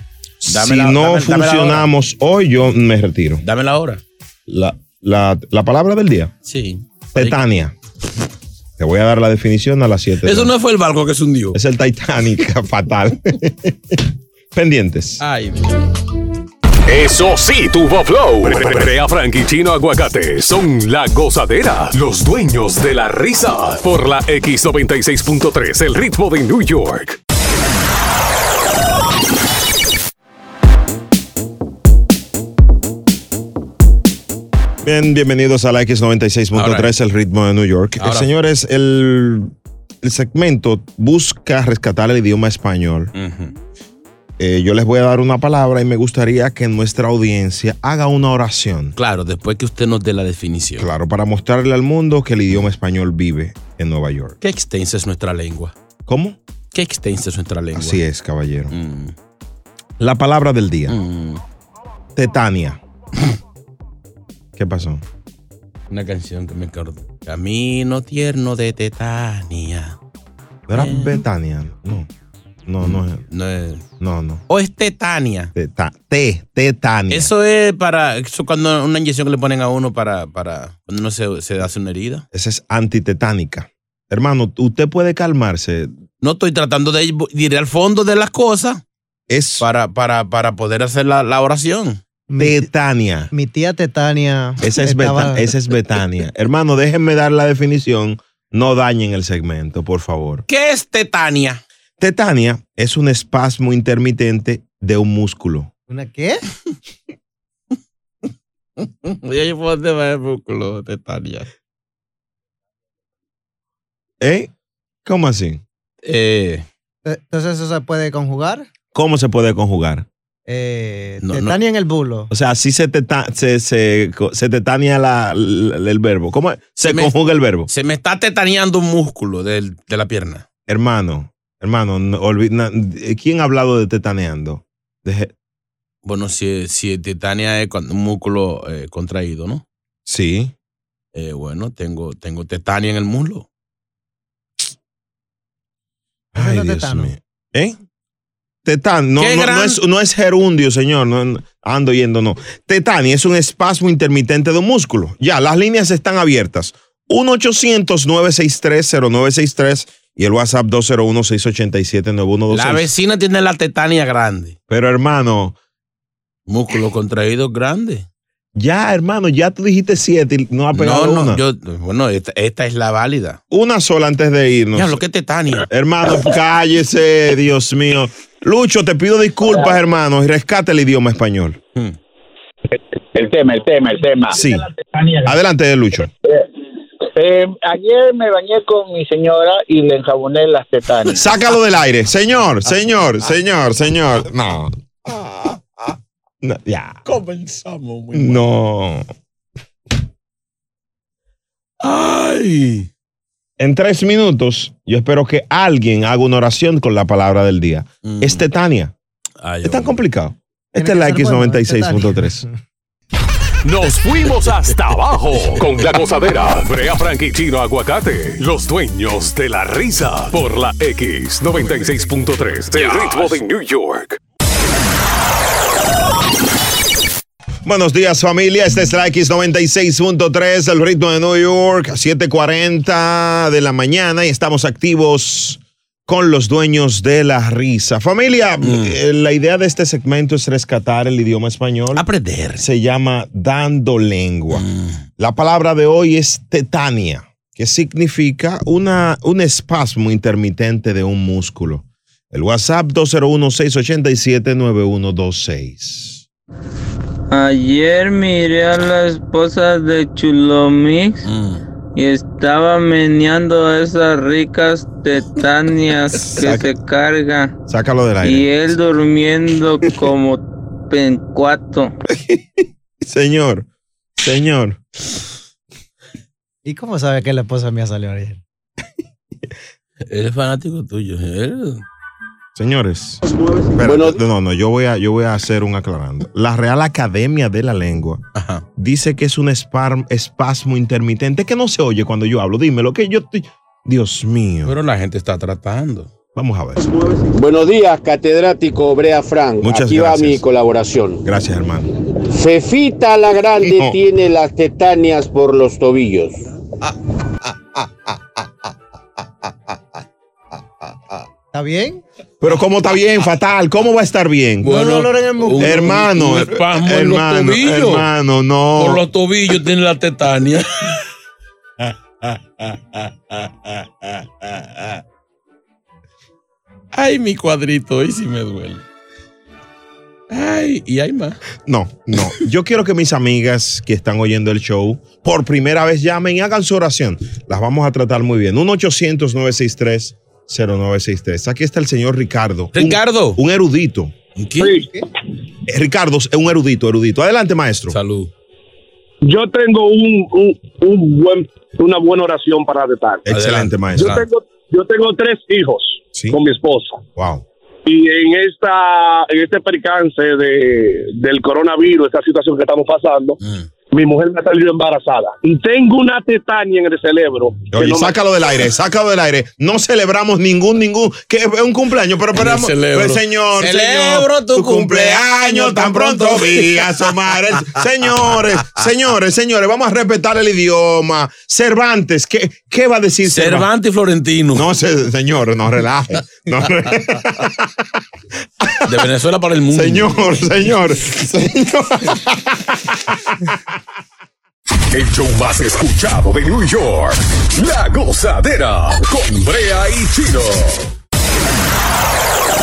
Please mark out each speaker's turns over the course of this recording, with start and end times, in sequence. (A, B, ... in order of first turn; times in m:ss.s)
0:00.4-0:03.4 A
0:00.5-0:01.9 B
0:03.4-0:04.0 B
0:04.5-0:06.3 A
0:06.4-0:07.4 B
0:07.1-0:07.7 A
0:08.8-0:10.5 A
0:10.2-0:11.6 B
0:11.5-0:14.0 A
0:14.5-0:15.2 A
0:15.2-0:15.8 B
0:16.9-0:27.2 C
0:34.8-0:43.1 A
0:36.5-0:36.9 B
0:38.0-0:38.3 B
0:43.1-0:43.5 B
0:44.4-0:49.0 A
0:49.0-0:50.9 B
0:50.8-0:54.4 A
0:54.4-0:55.7 B
0:56.1-0:56.4 A
0:56.7-0:58.0 B
0:57.7-0:58.7 A
0:58.7-0:59.1 B
1:00.0-1:01.0 A
1:00.9-1:01.4 B
1:02.2-1:02.8 A
1:04.6-1:05.0 A
1:05.9-1:10.0 B
1:10.7-1:12.1 A
1:10.7-1:11.2 B
1:12.6-1:13.2 A
1:12.8-1:13.8 B
1:14.0-1:14.4 A
1:14.5-1:15.5 B
1:15.5-1:17.3 A
1:17.1-1:22.2 B
1:22.3-1:25.9 A
1:26.2-1:28.8 B
1:29.3-1:29.6 A
1:29.6-1:32.0 B
1:32.3-1:32.6 D
1:32.4-1:33.3 A
1:33.3-1:35.5 D
1:34.6-1:40.4 A
1:40.5-1:41.6 B
1:42.0-1:45.7 A
1:45.9-1:46.4 D
1:49.0-1:51.5 B
1:54.2-1:54.5 A
1:55.0-1:55.6 A
1:56.0-1:56.6 B
1:57.0-1:58.7 D
1:58.9-2:00.0 A
2:00.5-2:02.3 D
2:01.2-2:01.6 B
2:02.3-2:07.7 A
2:06.8-2:07.1 B
2:07.7-2:10.4 B
2:10.7-2:15.3 A
2:16.0-2:19.6 B
2:20.0-2:20.5 A
2:21.1-2:23.5 B
2:26.3-2:27.8 A
2:26.4-2:27.1 D
2:28.6-2:42.9 A
2:29.2-2:29.8 B
2:42.5-2:44.6 B
2:44.7-2:45.6 A
2:46.5-2:48.0 B
2:48.5-2:51.4 A
2:50.7-2:53.4 B
2:53.5-2:55.0 A
2:54.8-2:55.7 B
2:55.6-3:01.6 A
3:03.1-3:05.2 E
3:04.3-3:04.7 A
3:05.2-3:06.1 A
3:07.1-3:11.3 E
3:11.1-3:15.6 A
3:16.4-3:17.0 A
3:17.0-3:18.4 B
3:18.1-3:19.0 A
3:21.8-3:22.9 B
3:23.6-3:28.9 A
3:28.0-3:28.4 B
3:29.4-3:30.0 B
3:29.6-3:32.4 A
3:30.8-3:32.5 D
3:33.6-3:44.2 C
3:47.6-4:02.0 A
3:58.6-3:59.0 B
4:02.0-4:02.6 B
4:02.6-4:04.6 A
4:04.5-4:05.0 B
4:05.2-4:16.2 A
4:17.3-4:21.2 F
4:21.2-4:21.6 B
4:22.0-4:27.5 F
4:26.3-4:26.6 A
4:27.7-4:28.7 A
4:28.2-4:31.9 F
4:32.1-4:33.6 A
4:34.2-4:34.8 A
4:36.6-4:38.4 D
4:40.1-4:41.8 B
4:42.6-4:43.2 A
4:43.7-4:48.2 A
4:43.8-4:44.2 G
4:48.3-4:48.6 B
4:48.8-4:54.7 A
4:54.6-4:56.1 B
4:56.3-4:56.8 A
4:57.3-5:01.2 G
4:59.6-5:00.4 A
5:01.2-5:01.9 A
5:02.3-5:06.4 G
5:03.6-5:04.0 A
5:11.5-5:12.0 D
5:12.4-5:14.8 A
5:14.6-5:18.1 B
5:14.6-5:15.9 D
5:15.6-5:19.0 A
5:18.8-5:21.0 B
5:21.8-5:25.0 B
5:26.9-5:28.8 B
5:30.3-5:31.4 B
5:31.6-5:44.1 A
5:42.7-5:43.4 B
5:44.4-5:44.8 B
5:44.6-5:44.9 H
5:45.7-5:48.0 A
5:47.9-5:48.3 B
5:49.2-5:53.2 H
5:53.2-5:54.2 A
5:53.3-5:54.2 B
5:54.0-5:57.0 H
5:56.1-5:56.4 A
5:57.1-5:57.4 A
5:57.8-6:03.4 H
6:03.4-6:03.7 B
6:03.9-6:08.2 H
6:07.7-6:23.7 A
6:12.3-6:16.9 B
6:23.2-6:24.7 B
6:24.5-6:27.7 A
6:28.6-6:28.9 A
6:28.8-6:30.2 B
6:29.7-6:33.6 A
6:34.9-6:40.9 C